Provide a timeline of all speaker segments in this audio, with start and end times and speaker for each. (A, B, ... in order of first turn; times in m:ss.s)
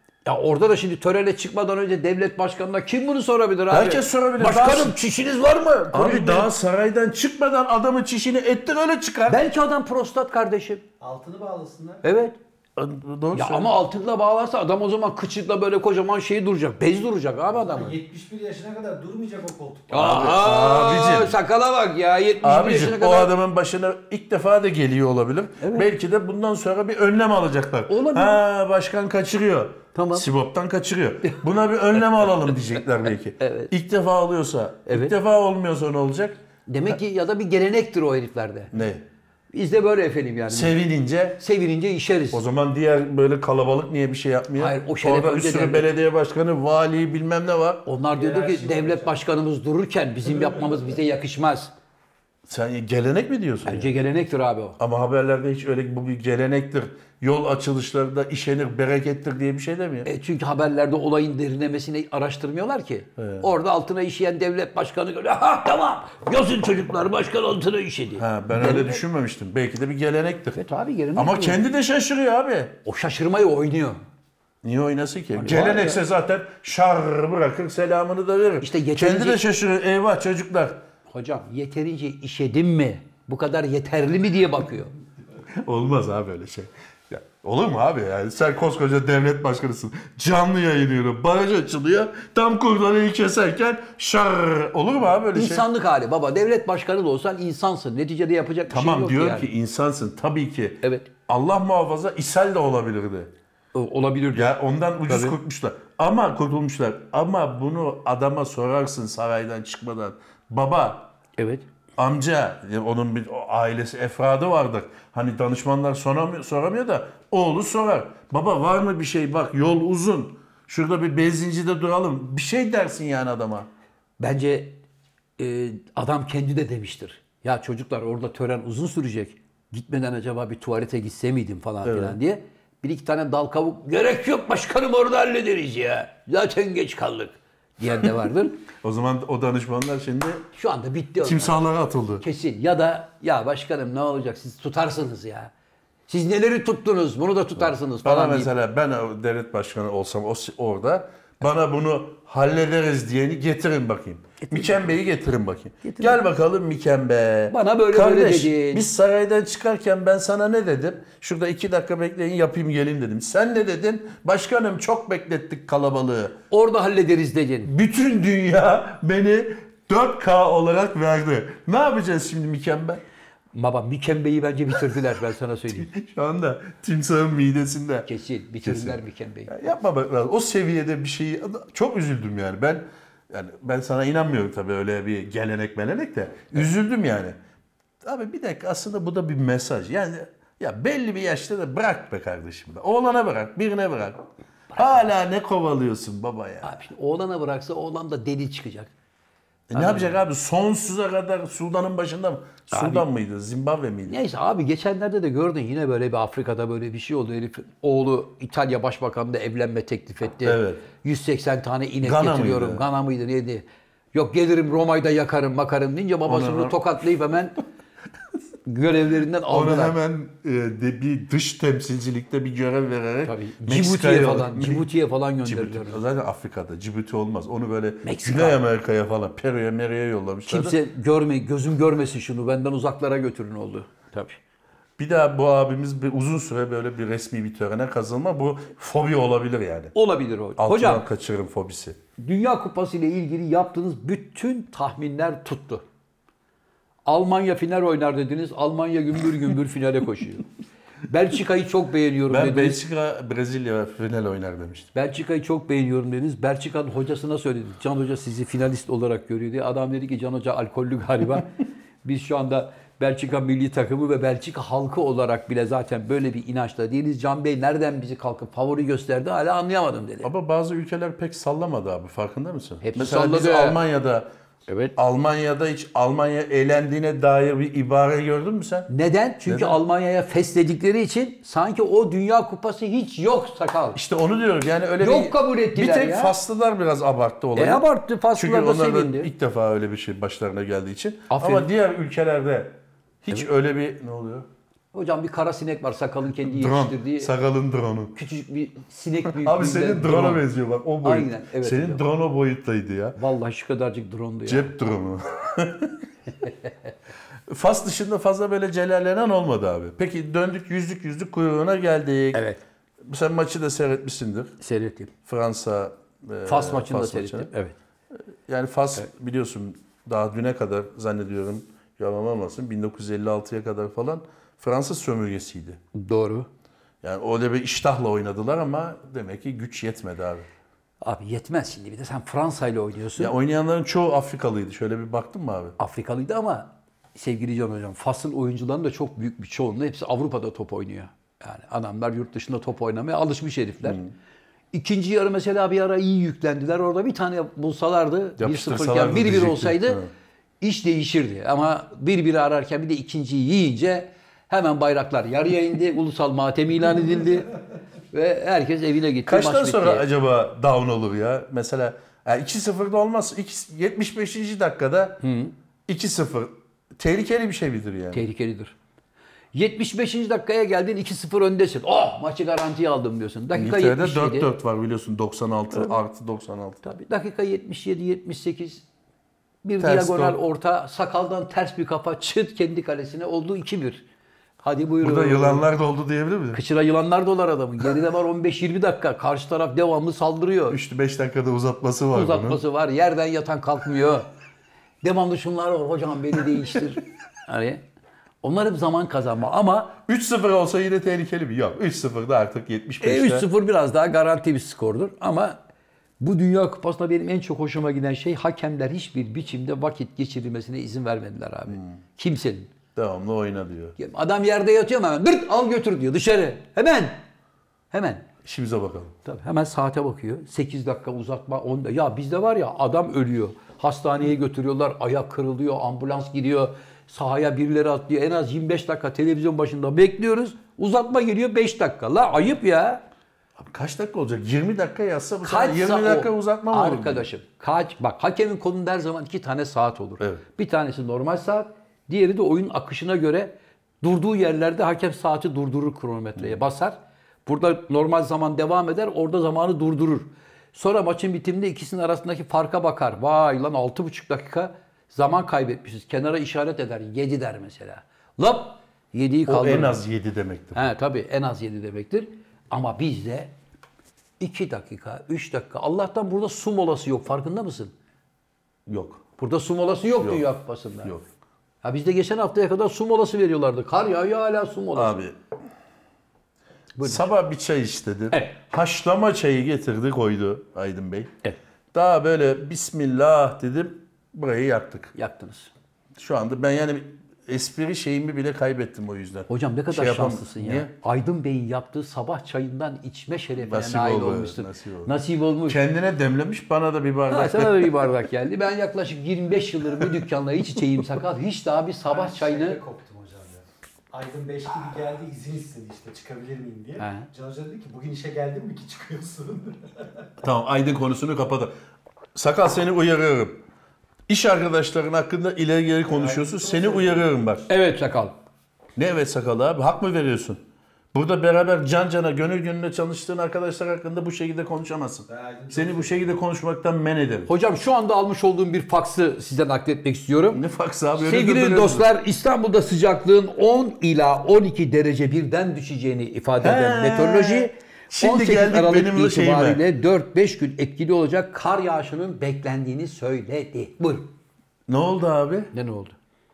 0:00.2-0:06.5 A
0:03.7-0:05.0 B
0:05.9-0:09.4 B
0:09.3-0:10.8 A
0:11.0-0:12.0 C
0:12.0-0:12.4 A
0:12.8-0:13.7 B
0:13.3-0:18.0 A
0:17.5-0:20.1 C
0:19.9-0:23.3 A
0:19.9-0:21.4 B
0:22.4-0:36.4 B
0:25.6-0:25.9 A
0:27.9-0:28.4 A
0:29.9-0:30.3 A
0:31.9-0:32.8 A
0:33.4-0:33.7 A
0:34.9-0:35.2 A
0:36.7-0:38.7 A
0:38.7-0:39.0 B
0:39.5-0:40.8 A
0:40.5-0:41.4 B
0:41.4-0:42.4 A
0:42.3-0:47.8 B
0:44.6-0:45.9 A
0:47.9-0:51.7 A
0:48.2-0:49.2 C
0:50.4-0:50.8 C
0:52.5-0:53.9 B
0:53.6-0:54.8 A
0:54.8-1:00.1 B
1:00.0-1:09.0 A
1:03.2-1:03.5 B
1:08.2-1:10.6 B
1:10.6-1:11.6 A
1:11.2-1:12.8 B
1:12.8-1:14.0 A
1:14.6-1:20.8 B
1:15.4-1:16.0 A
1:18.6-1:19.4 A
1:21.1-1:24.9 A
1:25.6-1:35.7 B
1:35.3-1:39.5 A
1:38.7-1:43.3 B
1:40.8-1:41.1 A
1:43.7-1:45.4 A
1:44.3-1:51.1 B
1:51.4-1:51.6 A
1:52.0-2:03.7 B
2:04.2-2:04.8 A
2:05.4-2:18.6 A
2:11.8-2:12.2 B
2:18.7-2:20.5 B
2:20.5-2:21.6 A
2:21.2-2:22.2 B
2:22.2-2:25.5 A
2:26.1-2:28.5 A
2:27.6-2:46.4 B
2:34.4-2:34.8 A
2:35.8-2:36.2 A
2:37.5-2:38.9 A
2:46.5-2:47.7 A
2:47.6-2:53.0 B
2:53.5-2:55.9 A
2:55.7-2:58.1 B
2:58.1-2:59.6 A
2:58.6-3:07.4 B
3:08.0-3:16.7 B
3:14.7-3:15.1 A
3:16.6-3:18.9 A
3:19.7-3:24.2 B
3:19.7-3:20.2 A
3:22.7-3:23.1 A
3:24.1-3:37.6 A
3:30.4-3:30.8 B
3:32.0-3:32.8 B
3:36.3-3:36.8 B
3:38.7-3:40.0 A
3:39.5-3:44.9 B
3:43.2-3:46.0 A
3:45.4-3:50.8 B
3:48.0-3:48.6 A
3:50.5-3:54.4 A
3:55.0-3:59.9 B
4:00.0-4:01.0 A
4:00.6-4:02.0 B
4:02.2-4:05.8 A
4:07.1-4:10.5 A
4:11.1-4:12.8 A
4:12.3-4:14.9 B
4:15.0-4:21.5 A
4:22.0-4:30.3 A
4:30.2-4:34.3 B
4:32.8-4:33.8 A
4:34.7-4:34.9 A
4:35.0-4:38.9 B
4:38.9-4:44.0 A
4:39.4-4:39.8 B
4:44.0-4:54.5 B
4:45.0-4:46.4 A
4:47.6-4:49.3 A
4:51.3-4:51.7 A
4:54.9-4:57.3 A
4:56.4-4:58.2 B
4:58.2-5:00.4 A
4:59.3-5:03.2 B
5:01.0-5:02.0 A
5:03.2-5:04.7 A
5:04.5-5:06.0 B
5:07.5-5:12.4 B
5:12.3-5:12.6 A
5:13.1-5:14.6 B
5:14.6-5:15.1 A
5:15.3-5:17.5 B
5:16.5-5:17.8 A
5:18.5-5:25.8 B
5:25.9-5:26.5 A
5:27.0-5:30.5 B
5:31.0-5:33.3 A
5:33.2-5:35.8 B
5:35.8-5:44.0 A
5:44.7-5:50.0 A
5:48.4-5:50.1 B
5:50.6-5:57.5 A
5:58.1-6:00.1 A
5:59.3-6:05.2 B
6:05.2-6:05.5 A
6:05.9-6:08.3 B
6:08.1-6:08.8 A
6:09.5-6:14.5 A
6:13.5-6:16.8 B
6:16.8-6:18.8 A
6:19.6-6:24.0 A
6:19.8-6:20.4 B
6:24.6-6:25.6 A
6:25.0-6:26.6 B
6:26.5-6:30.8 A
6:30.7-6:32.6 B
6:32.1-6:34.3 A
6:35.0-6:37.8 A
6:38.4-6:40.0 A
6:40.1-6:43.5 B
6:43.0-6:45.6 A
6:46.2-6:52.7 A
6:53.0-6:54.0 B
6:54.0-6:57.2 A
6:57.9-6:58.3 A
6:58.4-6:59.2 B
6:59.2-7:13.0 A
7:13.6-7:17.3 B
7:15.4-7:40.0 A
7:39.5-7:40.8 B
7:40.8-7:43.5 A
7:44.4-7:47.9 A
7:48.9-7:49.2 B
7:49.4-7:51.2 A
7:50.2-7:50.5 B
7:51.8-7:55.2 A
7:55.0-7:55.4 B
7:57.0-7:57.3 A
7:57.0-8:01.3 B
8:01.9-8:05.1 B
8:05.2-8:05.7 A
8:06.2-8:10.9 B
8:09.5-8:15.8 A
8:13.6-8:15.1 B
8:15.7-8:18.1 B
8:17.3-8:22.8 A
8:22.0-8:30.2 C
8:27.0-8:27.3 A
8:30.4-8:31.7 B
8:32.4-8:33.6 B
8:34.3-8:37.7 B
8:36.1-8:37.3 C
8:37.7-8:38.3 A
8:39.0-8:40.6 B
8:41.1-8:47.5 B
8:45.3-8:46.3 C
8:47.5-8:50.6 A
8:50.5-8:52.1 B
8:51.2-9:04.3 A
8:56.6-8:59.8 B
9:04.9-9:05.7 B
9:05.7-9:06.2 A